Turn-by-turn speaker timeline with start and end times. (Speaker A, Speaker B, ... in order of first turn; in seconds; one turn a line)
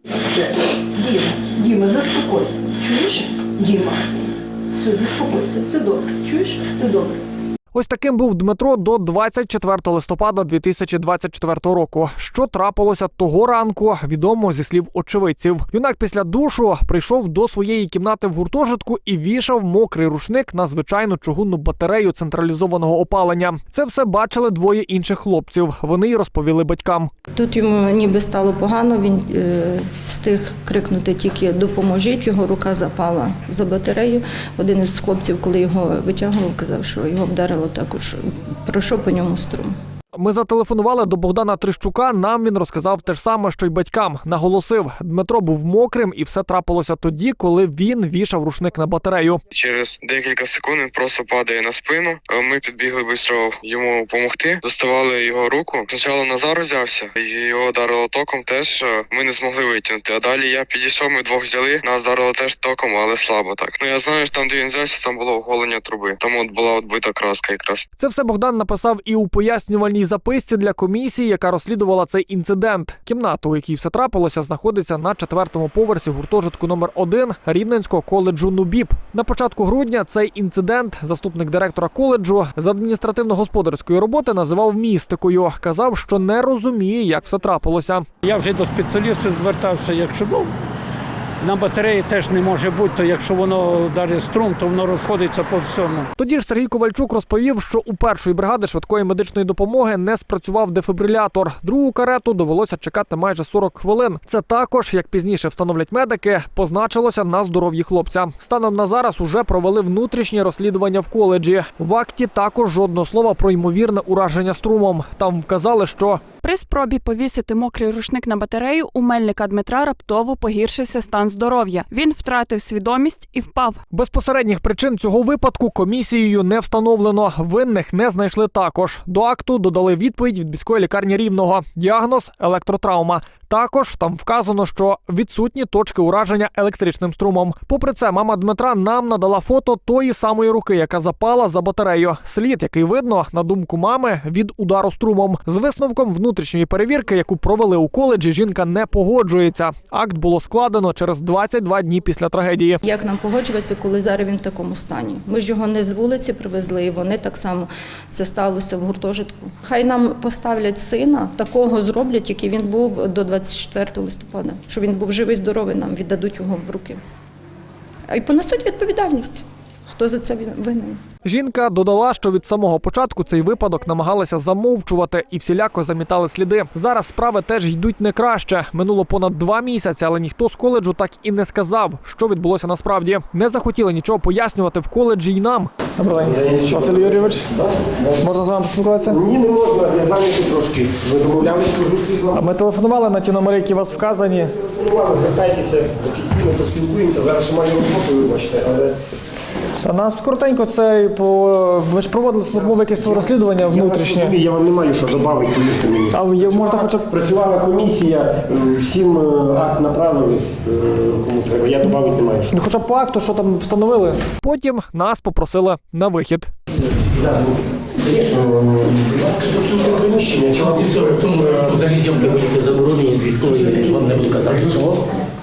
Speaker A: 0.1-4.0
Speaker A: 4.8-7.2
Speaker B: 7.7-27.1
Speaker C: 27.3-39.7
Speaker B: 40.1-49.4
Speaker D: 49.5-67.8
Speaker B: 68.0-88.1
Speaker E: 88.2-90.5
Speaker E: 91.4-96.1
Speaker B: 96.2-116.2
Speaker F: 116.4-123.8
Speaker B: 123.9-152.8
Speaker C: 152.8-167.0
Speaker C: 168.1-171.0
Speaker B: 171.2-187.4
Speaker G: 186.1-188.3
Speaker B: 188.2-189.2
Speaker G: 189.0-192.4
Speaker B: 192.3-194.5
Speaker G: 194.6-198.9
Speaker B: 199.8-204.3
Speaker G: 202.5-212.6
Speaker B: 206.1-207.1
Speaker B: 212.5-216.5
Speaker G: 218.0-222.3
Speaker H: 220.6-225.0